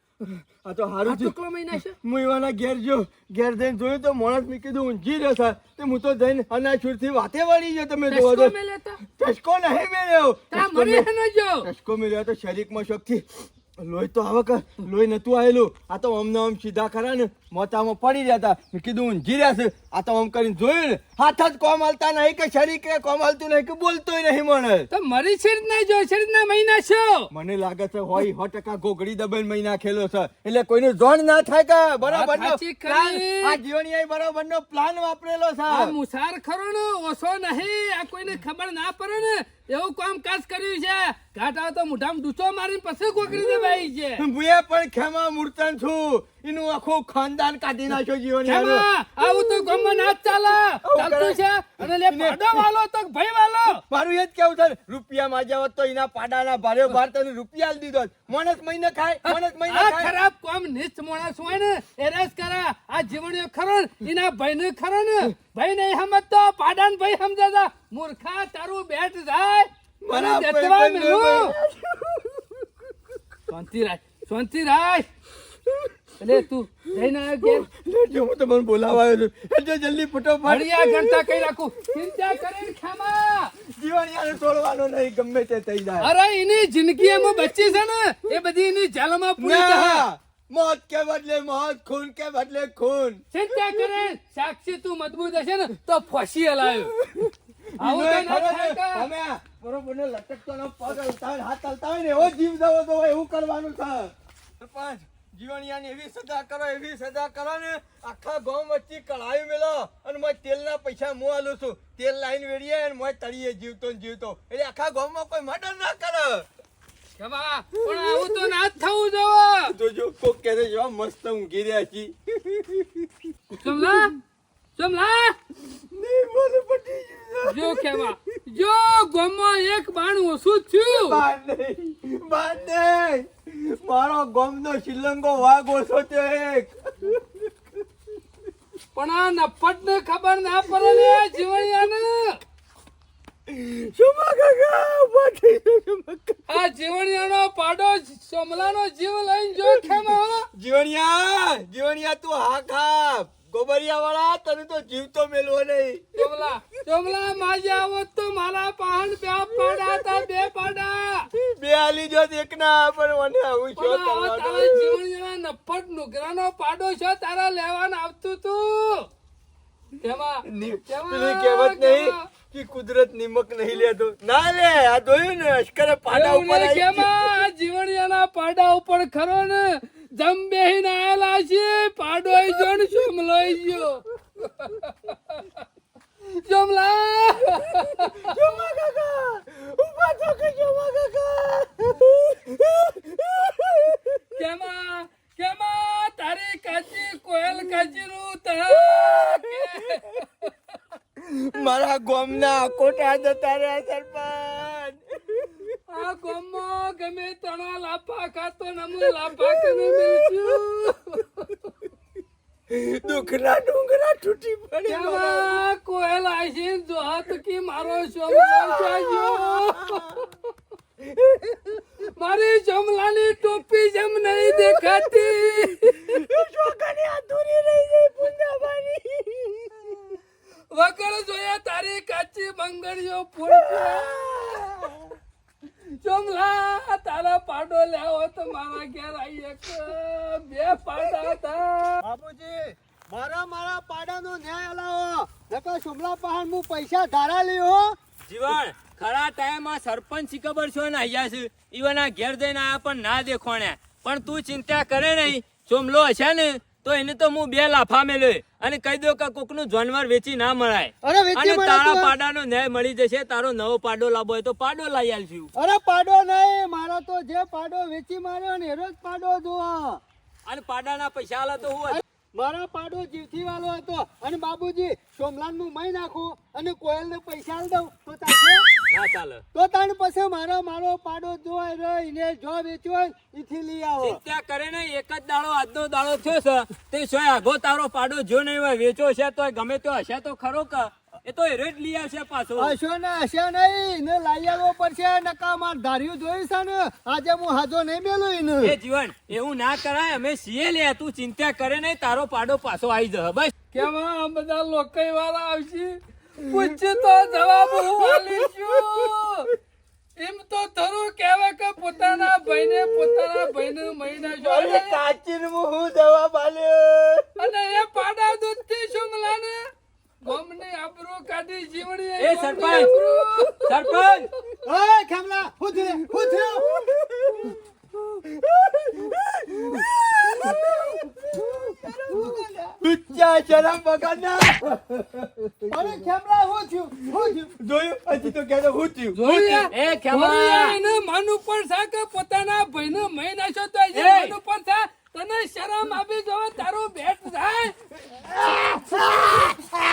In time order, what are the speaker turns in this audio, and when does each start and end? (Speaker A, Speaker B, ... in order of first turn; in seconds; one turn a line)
Speaker A: 0.2-1.3
Speaker B: 1.0-1.9
Speaker A: 2.0-8.5
Speaker B: 8.1-9.0
Speaker A: 9.1-11.1
Speaker B: 10.5-11.7
Speaker A: 11.6-24.9
Speaker B: 24.9-27.3
Speaker A: 27.3-35.9
Speaker B: 32.0-33.6
Speaker B: 35.7-44.2
Speaker A: 43.3-50.1
Speaker B: 48.4-53.8
Speaker A: 50.8-52.6
Speaker A: 53.9-60.1
Speaker B: 59.2-71.5
Speaker A: 70.0-72.7
Speaker B: 73.5-75.1
Speaker A: 75.7-76.4
Speaker B: 76.2-77.7
Speaker A: 77.0-82.5
Speaker B: 80.4-83.5
Speaker A: 83.6-86.1
Speaker B: 86.0-90.0
Speaker A: 87.0-87.6
Speaker A: 89.4-93.2
Speaker B: 93.3-96.9
Speaker A: 96.7-116.5
Speaker B: 97.8-99.1
Speaker B: 117.2-119.7
Speaker A: 117.8-118.5
Speaker A: 119.7-124.0
Speaker B: 123.6-124.1
Speaker B: 124.8-125.3
Speaker A: 125.6-128.1
Speaker B: 127.5-131.2
Speaker A: 130.9-137.8
Speaker B: 138.9-142.4
Speaker A: 140.7-141.7
Speaker A: 143.5-146.4
Speaker B: 146.5-150.5
Speaker A: 149.6-156.3
Speaker B: 156.1-161.3
Speaker A: 159.5-160.2
Speaker A: 161.3-165.0
Speaker B: 163.8-169.1
Speaker B: 170.0-172.2
Speaker A: 170.4-177.3
Speaker B: 176.1-185.5
Speaker B: 186.3-188.3
Speaker A: 187.7-194.2
Speaker B: 194.3-200.5
Speaker A: 198.7-200.2
Speaker A: 201.2-205.8
Speaker B: 205.9-211.6
Speaker A: 209.0-210.6
Speaker A: 212.7-215.6
Speaker B: 214.9-220.2
Speaker A: 218.3-220.3
Speaker A: 221.0-221.8
Speaker B: 222.0-226.2
Speaker A: 224.4-230.2
Speaker B: 230.7-234.1
Speaker A: 233.4-235.1
Speaker B: 236.0-242.0
Speaker C: 242.0-247.9
Speaker D: 248.3-265.5
Speaker C: 261.0-262.1
Speaker C: 265.6-270.0
Speaker D: 270.4-272.0
Speaker C: 271.9-278.7
Speaker D: 278.9-279.4
Speaker C: 279.5-284.2
Speaker D: 284.0-292.8
Speaker C: 292.6-298.8
Speaker D: 298.6-303.5
Speaker B: 303.7-309.5
Speaker A: 306.5-309.1
Speaker B: 310.2-315.0
Speaker A: 312.2-313.7
Speaker A: 314.4-317.3
Speaker B: 317.4-319.7
Speaker B: 320.2-324.1
Speaker D: 322.2-322.9
Speaker D: 323.6-324.3
Speaker C: 324.6-326.8
Speaker A: 325.9-327.6
Speaker A: 328.1-336.0
Speaker C: 330.4-332.8
Speaker C: 335.7-337.5
Speaker A: 337.1-339.7
Speaker B: 339.2-347.7
Speaker D: 339.7-340.8
Speaker D: 343.9-344.3
Speaker A: 348.1-349.7
Speaker C: 348.8-349.6